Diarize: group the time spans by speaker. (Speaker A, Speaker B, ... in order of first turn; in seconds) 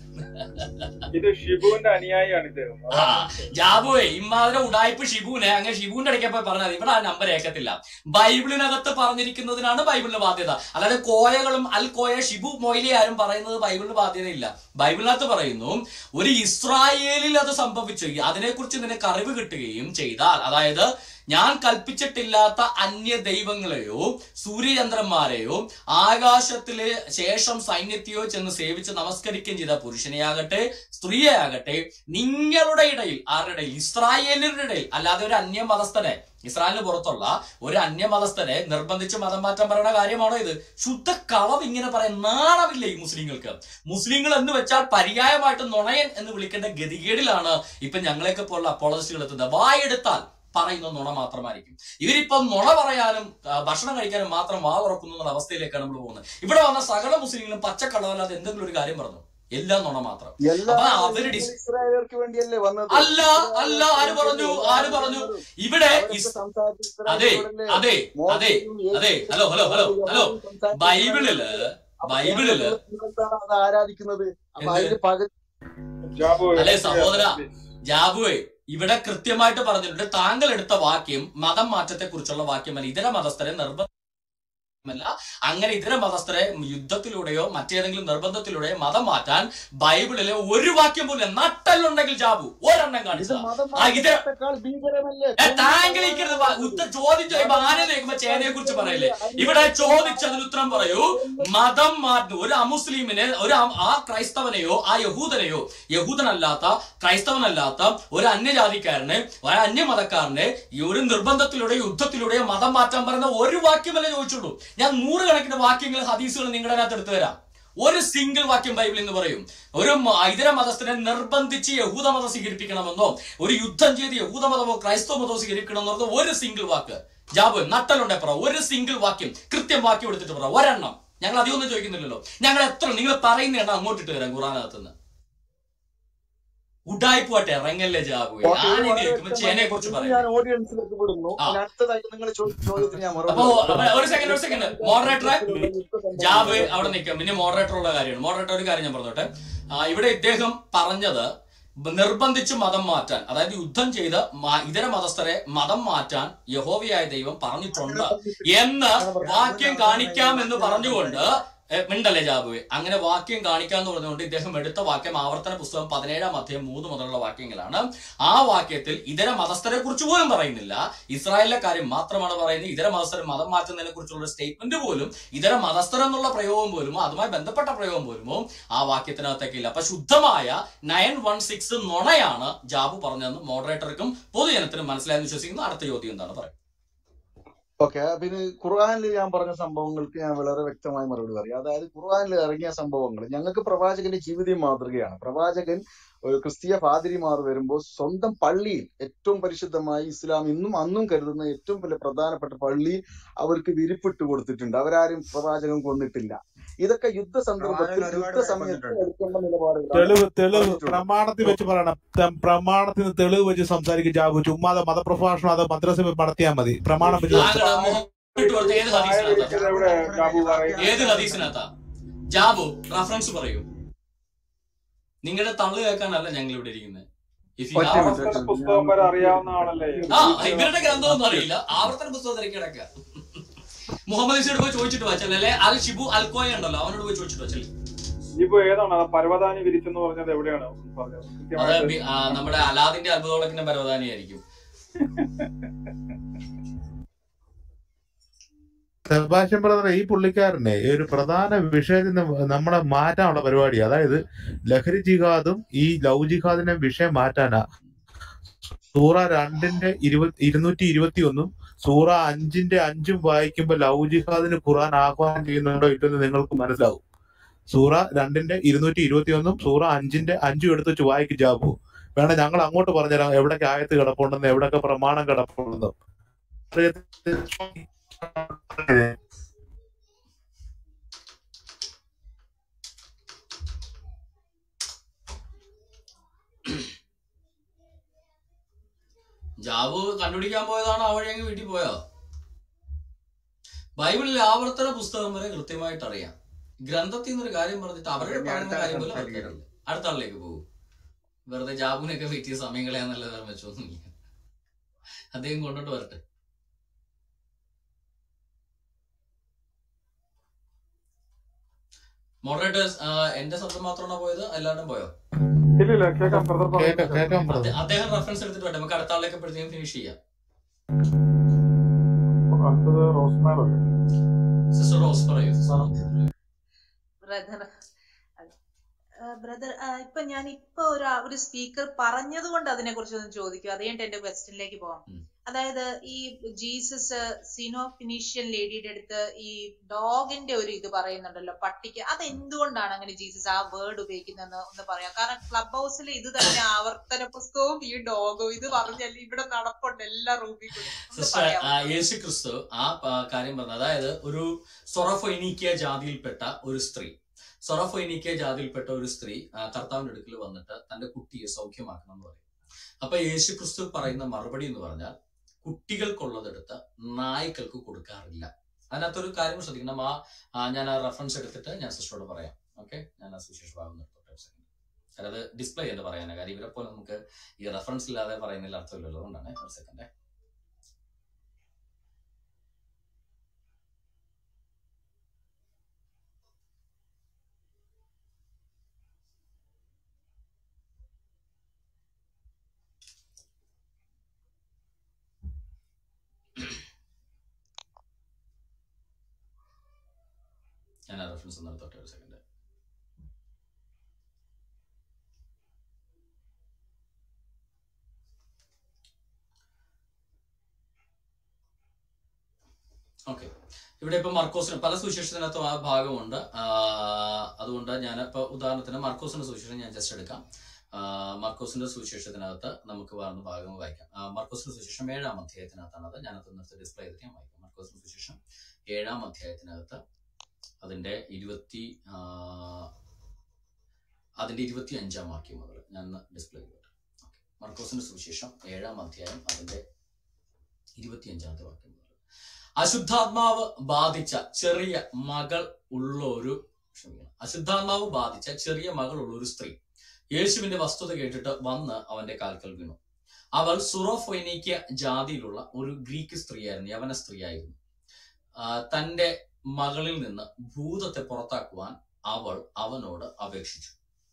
Speaker A: 0.4-1.0, 2.9-61.5, 62.9-66.3, 67.1-72.8, 74.6-75.0, 76.5-83.9, 84.8-94.2, 95.4-134.9, 136.9-140.2, 143.3-151.3, 151.8-186.5, 217.3-219.9, 220.8-221.7, 222.3-223.7, 225.2-227.1, 227.6-228.4, 230.1-233.4, 234.1-237.7, 241.6-244.4, 289.6-292.0, 294.0-300.6, 301.5-304.1, 305.3-306.2, 312.4-315.1, 317.4-320.2, 324.7-326.3, 351.1-362.4, 363.0-380.1, 401.1-402.4, 413.3-420.4, 420.9-428.4, 428.9-430.0, 430.8-432.9, 434.4-439.8, 441.0-442.2, 442.8-449.8, 450.3-453.0, 453.6-457.8, 458.6-463.9
Speaker B: 1.1-3.4, 76.0-77.5, 217.2-221.1, 227.8-230.4, 238.4-242.4, 315.8-317.5, 322.5-323.7
Speaker C: 60.4-65.4, 65.9-75.3, 93.1-101.5, 138.4-147.0, 159.1-161.2, 187.8-211.0, 219.2-221.5, 227.8-231.7, 298.2-299.6
Speaker D: 209.9-217.8, 249.1-257.6, 258.9-267.0, 267.7-275.9, 276.7-279.1, 316.3-317.8
Speaker E: 327.3-327.7, 329.3-352.0